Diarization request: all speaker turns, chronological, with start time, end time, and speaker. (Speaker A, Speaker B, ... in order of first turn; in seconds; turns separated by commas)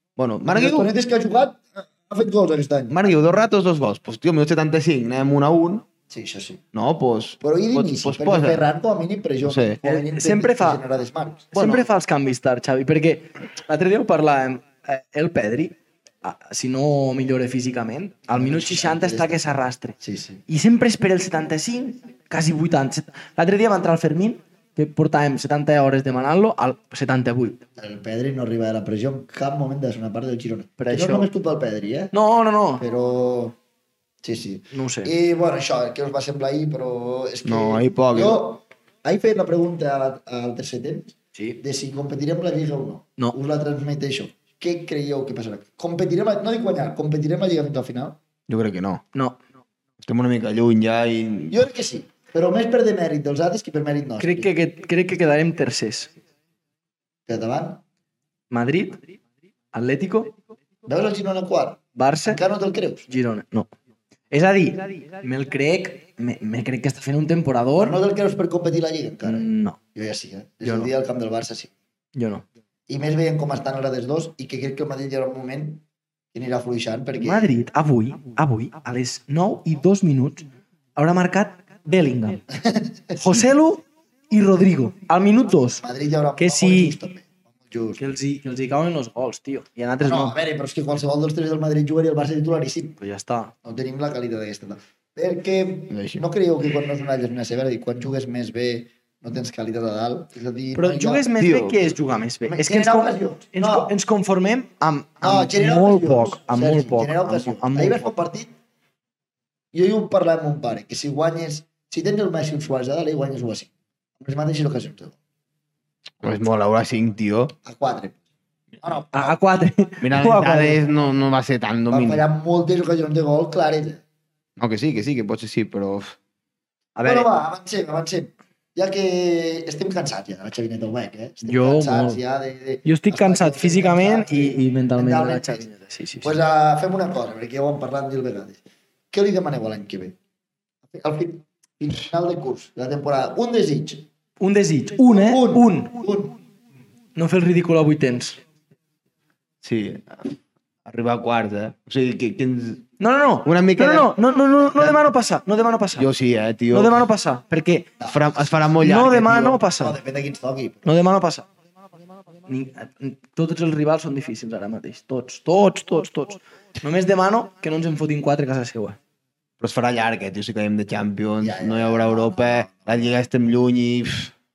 Speaker A: 0.2-0.9, Speaker B: 0.5-3.0, Speaker A: 2.9-5.8, Speaker B: 6.1-6.6, Speaker A: 6.7-8.7, Speaker B: 7.4-11.5, Speaker A: 9.4-9.8, Speaker C: 9.8-10.8, Speaker A: 11.5-11.9, Speaker C: 11.5-20.0, Speaker B: 18.3-19.4, Speaker B: 20.0-20.4, Speaker C: 20.5-27.6, Speaker B: 27.8-32.1, Speaker C: 30.8-31.3, Speaker C: 32.1-32.8, Speaker B: 32.8-33.5, Speaker B: 34.2-48.2, Speaker C: 34.7-35.1, Speaker A: 37.4-38.4, Speaker A: 48.5-49.0, Speaker A: 50.0-51.6, Speaker B: 51.5-54.5, Speaker C: 54.2-56.1, Speaker B: 57.3-57.8, Speaker C: 58.5-59.0, Speaker C: 59.7-60.3, Speaker B: 60.9-63.1, Speaker C: 62.0-62.4, Speaker C: 63.1-63.7, Speaker C: 64.3-68.0, Speaker B: 67.8-71.7, Speaker C: 69.2-69.8, Speaker C: 70.6-70.9, Speaker C: 72.1-72.4, Speaker B: 72.9-75.8, Speaker B: 76.3-77.6, Speaker C: 77.2-80.4, Speaker C: 81.0-82.4, Speaker B: 82.5-83.5, Speaker C: 83.2-85.8, Speaker B: 85.8-88.0, Speaker C: 86.4-86.9, Speaker C: 88.0-90.3, Speaker B: 90.0-93.0, Speaker C: 93.0-93.5, Speaker B: 93.6-101.3, Speaker A: 95.9-96.2, Speaker C: 100.8-108.1, Speaker A: 101.4-101.8, Speaker B: 102.4-103.9, Speaker B: 105.2-108.5, Speaker B: 109.7-115.1, Speaker A: 116.2-117.5, Speaker B: 117.6-118.2, Speaker B: 118.8-119.3, Speaker C: 119.1-120.8, Speaker A: 120.0-122.2, Speaker B: 121.9-124.0, Speaker A: 124.6-126.2, Speaker C: 127.0-127.3, Speaker B: 127.0-135.7, Speaker C: 131.5-132.2, Speaker C: 132.8-136.4, Speaker B: 136.2-138.6, Speaker B: 139.1-140.1, Speaker B: 140.9-144.1, Speaker C: 144.4-146.0, Speaker B: 145.1-146.3, Speaker C: 147.1-148.4, Speaker A: 149.6-152.9, Speaker C: 153.0-156.1, Speaker A: 153.4-154.1, Speaker A: 155.9-157.0, Speaker C: 156.7-157.9, Speaker B: 158.0-158.8, Speaker A: 158.1-159.6, Speaker C: 158.8-160.0, Speaker B: 159.7-161.0, Speaker C: 160.8-161.4, Speaker C: 162.5-169.0, Speaker A: 169.6-174.3, Speaker B: 171.4-173.1